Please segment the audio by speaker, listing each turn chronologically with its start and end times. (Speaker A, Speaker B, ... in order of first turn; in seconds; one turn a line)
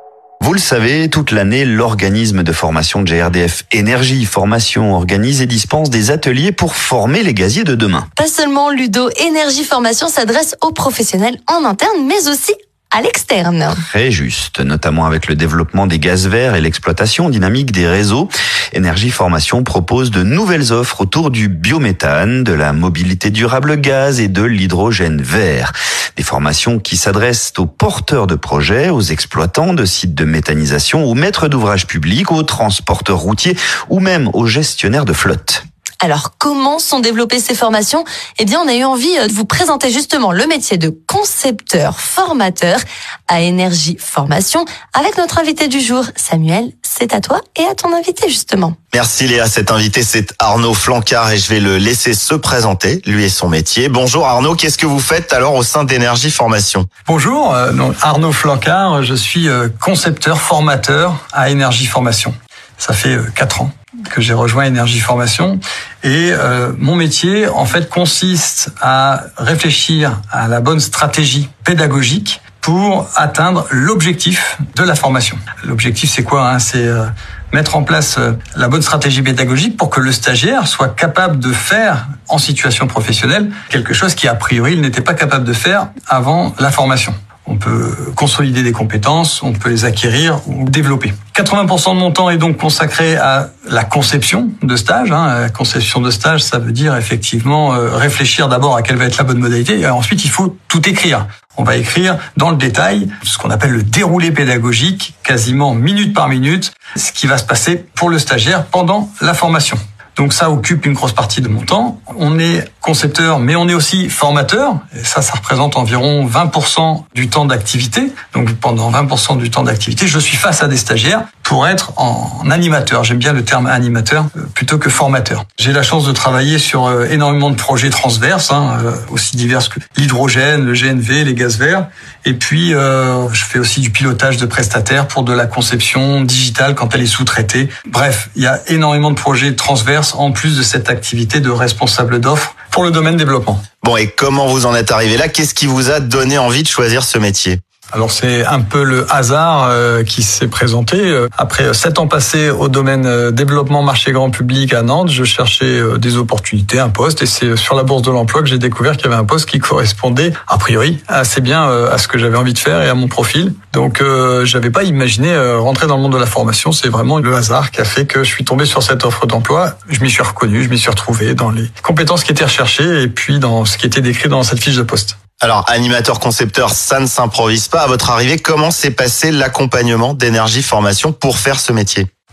Speaker A: 0.4-8.1
Speaker B: 8.2-13.8
Speaker A: 13.8-35.6
Speaker B: 36.0-48.8
Speaker C: 48.9-56.9
Speaker D: 57.1-143.6
Speaker C: 143.8-147.6
Speaker D: 147.9-175.2
Speaker C: 175.4-182.1